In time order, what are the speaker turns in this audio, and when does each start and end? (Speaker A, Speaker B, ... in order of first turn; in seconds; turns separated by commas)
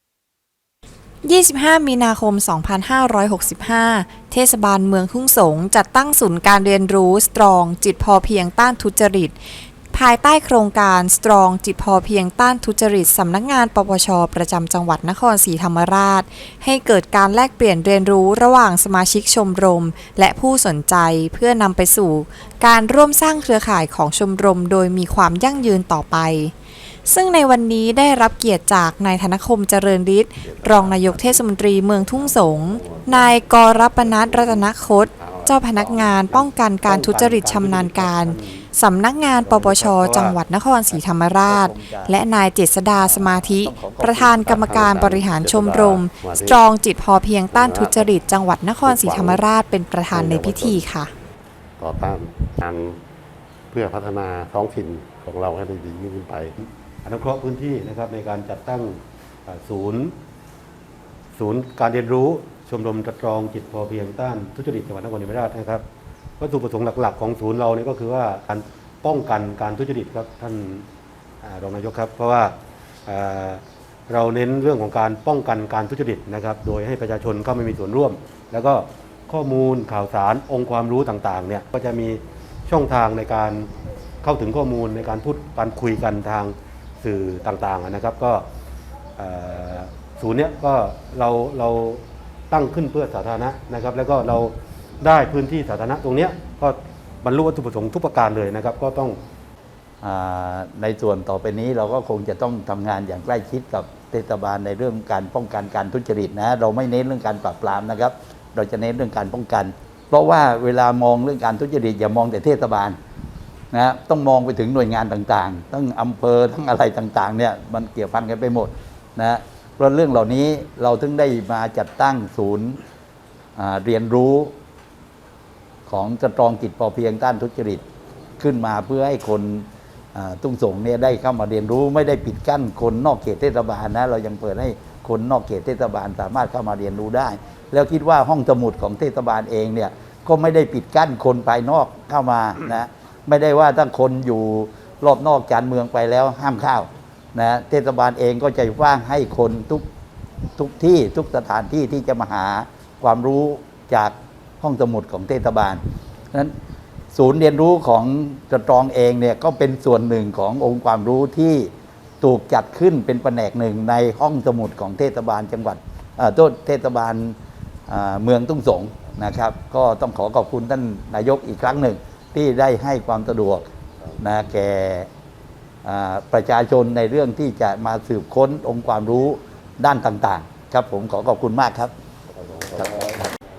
Speaker A: 1.2-9.3, Speaker A: 9.9-26.5, Speaker A: 27.1-51.1, Speaker B: 30.4-36.5, Speaker C: 36.8-38.7, Speaker C: 39.3-40.4, Speaker D: 40.9-42.2, Speaker D: 43.0-44.5, Speaker B: 44.4-46.6, Speaker B: 47.5-48.1, Speaker B: 48.8-49.4, Speaker B: 50.1-50.9, Speaker B: 51.8-53.0, Speaker B: 53.7-56.5, Speaker C: 57.0-60.1, Speaker C: 61.4-65.8, Speaker C: 66.4-70.9, Speaker C: 71.4-83.7, Speaker C: 84.2-88.5, Speaker C: 89.2-99.2, Speaker D: 100.0-113.0, Speaker D: 113.7-122.8, Speaker D: 123.5-124.5, Speaker D: 125.9-127.8, Speaker D: 128.4-149.8, Speaker D: 150.6-156.5, Speaker D: 157.1-167.4, Speaker D: 167.9-175.1, Speaker D: 175.8-181.9, Speaker B: 182.3-183.2, Speaker D: 182.7-183.2